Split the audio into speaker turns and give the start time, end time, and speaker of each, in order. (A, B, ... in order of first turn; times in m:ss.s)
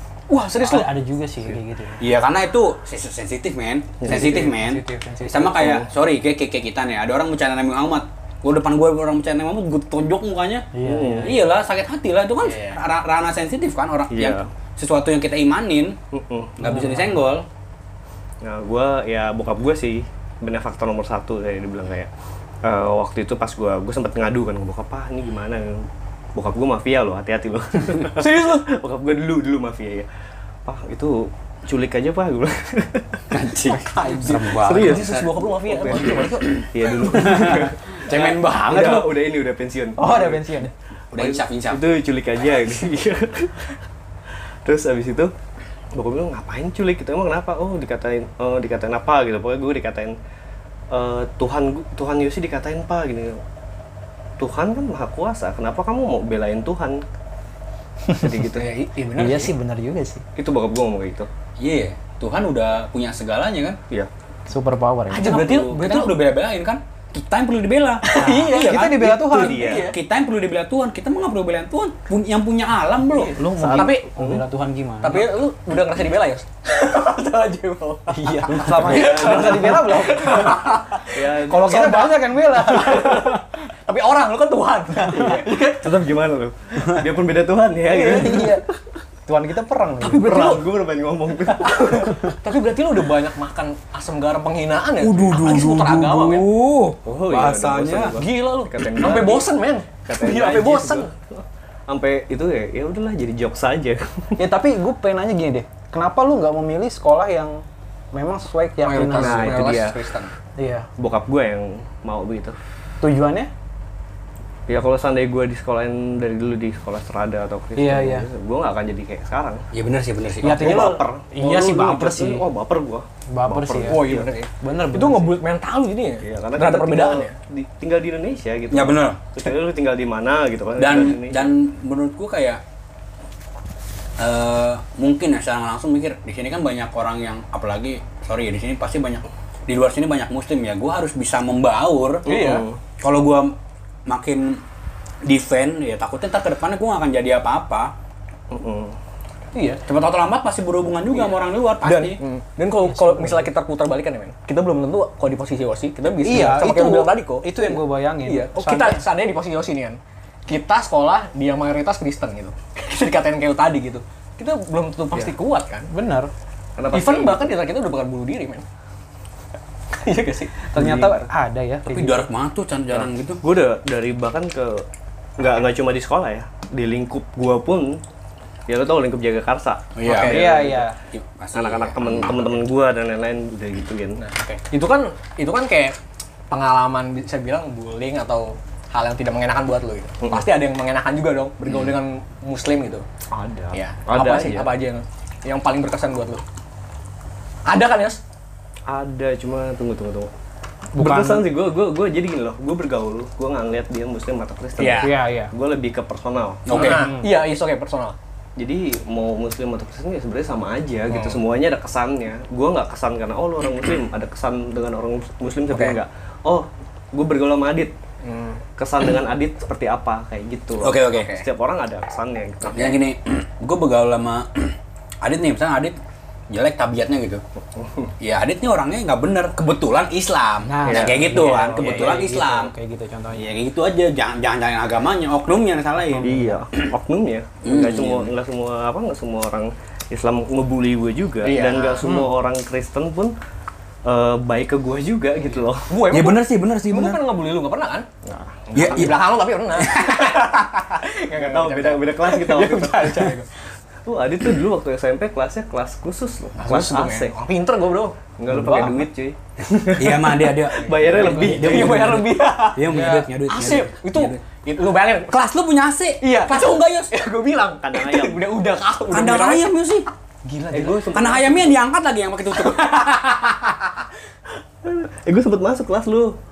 0:00.5-0:02.1 A
0:02.0-0:10.7 B
0:04.0-0:04.5 C
0:04.1-0:05.8 A
0:05.6-0:05.8 C
0:10.7-0:11.4 A
0:10.8-0:11.4 C
0:11.2-0:16.0 B
0:12.5-0:12.7 D
0:14.1-0:14.5 C
0:16.1-0:16.6 C
0:16.6-0:17.4 B
0:16.6-0:17.1 A
0:18.4-0:22.1 C
0:22.6-0:30.1 C
0:28.1-0:28.7 D
0:30.6-0:33.2 C
0:33.3-0:35.2 B
0:33.7-0:34.4 A
0:33.9-0:36.5 D
0:34.5-0:40.4 C
0:36.4-0:39.1 B
0:40.0-0:40.7 A
0:41.1-0:41.8 B
0:41.1-0:43.7 C
0:44.6-0:45.3 C
0:45.9-0:50.2 C
0:50.9-0:53.4 C
0:54.4-0:57.0 C
0:58.1-0:58.6 C
0:58.4-0:59.5 D
0:59.2-1:00.2 A
1:00.4-1:01.3 C
1:01.6-1:03.8 B
1:04.5-1:05.3 A
1:05.1-1:06.2 D
1:05.2-1:13.4 B
1:08.0-1:10.0 D
1:08.1-1:09.6 A
1:09.2-1:09.9 C
1:13.1-1:14.0 D
1:13.4-1:14.4 C
1:13.4-1:15.3 A
1:15.0-1:21.2 D
1:18.1-1:20.7 A
1:18.5-1:19.9 C
1:21.1-1:22.1 C
1:21.5-1:23.3 A
1:22.6-1:26.0 D
1:25.0-1:25.4 A
1:25.1-1:28.6 C
1:27.9-1:28.6 A
1:29.3-1:30.6 A
1:30.0-1:32.2 C
1:30.1-1:30.6 D
1:31.7-1:36.5 D
1:35.0-1:38.1 B
1:37.0-1:39.5 C
1:38.2-1:41.1 D
1:40.0-1:44.3 C
1:44.4-1:49.6 A
1:48.8-1:50.3 D
1:49.2-1:50.0 C
1:50.6-1:50.9 A
1:51.0-1:52.6 C
1:53.0-1:53.5 A
1:54.7-1:59.7 C
1:57.8-1:58.3 A
1:59.7-2:00.8 B
2:00.4-2:02.4 A
2:00.4-2:04.3 C
2:03.3-2:04.0 A
2:03.8-2:06.2 D
2:04.6-2:05.4 A
2:06.2-2:11.5 C
2:06.6-2:07.2 B
2:07.0-2:07.3 D
2:08.7-2:09.2 B
2:10.8-2:12.6 B
2:14.2-2:22.3 B
2:22.2-2:22.6 D
2:22.2-2:22.8 C
2:23.0-2:23.5 B
2:24.0-2:24.6 B
2:25.2-2:27.9 B
2:28.5-2:29.0 C
2:29.5-2:29.8 D
2:29.8-2:32.2 B
2:31.1-2:45.9 D
2:32.9-2:33.5 A
2:36.2-2:39.0 A
2:45.9-2:46.3 A
2:46.8-2:47.5 C
2:46.9-2:48.6 D
2:49.9-2:50.6 D
2:50.7-2:52.3 A
2:50.7-2:51.3 C
2:51.8-2:53.4 B
2:52.9-2:54.8 C
2:55.4-2:58.0 C
2:58.7-3:00.9 C
2:59.9-3:00.5 B
3:00.1-3:01.0 A
3:01.1-3:02.6 B
3:01.5-3:04.2 C
3:04.2-3:06.0 D
3:06.5-3:13.0 D
3:10.2-3:10.5 C
3:11.7-3:11.9 B
3:13.3-3:14.7 C
3:13.8-3:16.4 D
3:17.6-3:18.2 D
3:18.9-3:20.3 C
3:20.9-3:21.4 A
3:21.0-3:27.0 C
3:24.8-3:25.1 D
3:25.0-3:25.5 A
3:26.6-3:27.1 B
3:26.7-3:28.2 D
3:26.8-3:27.3 A
3:28.6-3:37.9 C
3:31.1-3:31.4 D
3:38.2-3:38.6 D
3:38.8-3:43.0 C
3:40.8-3:41.4 B
3:42.7-3:46.0 B
3:46.5-3:47.4 B
3:47.7-3:48.1 C
3:48.2-3:52.7 B
3:50.6-3:53.4 A
3:50.8-3:52.2 C
3:53.3-3:56.4 B
3:56.0-3:56.6 A
3:56.2-4:03.3 C
3:57.6-3:58.3 B
4:01.4-4:02.1 D
4:04.0-4:05.9 C
4:05.7-4:08.0 D
4:06.1-4:07.2 B
4:08.2-4:09.1 C
4:08.7-4:13.5 D
4:08.7-4:09.2 B
4:09.8-4:10.6 B
4:11.3-4:13.4 C
4:14.0-4:17.4 C
4:16.6-4:19.0 D
4:18.4-4:22.2 C
4:19.9-4:24.4 B
4:20.7-4:25.4 D
4:22.9-4:23.3 A
4:25.3-4:27.1 B
4:26.2-4:29.7 D
4:27.8-4:28.4 C
4:29.1-4:30.0 B
4:30.4-4:31.2 D
4:30.7-4:31.8 C
4:31.1-4:34.0 B
4:34.8-4:36.4 C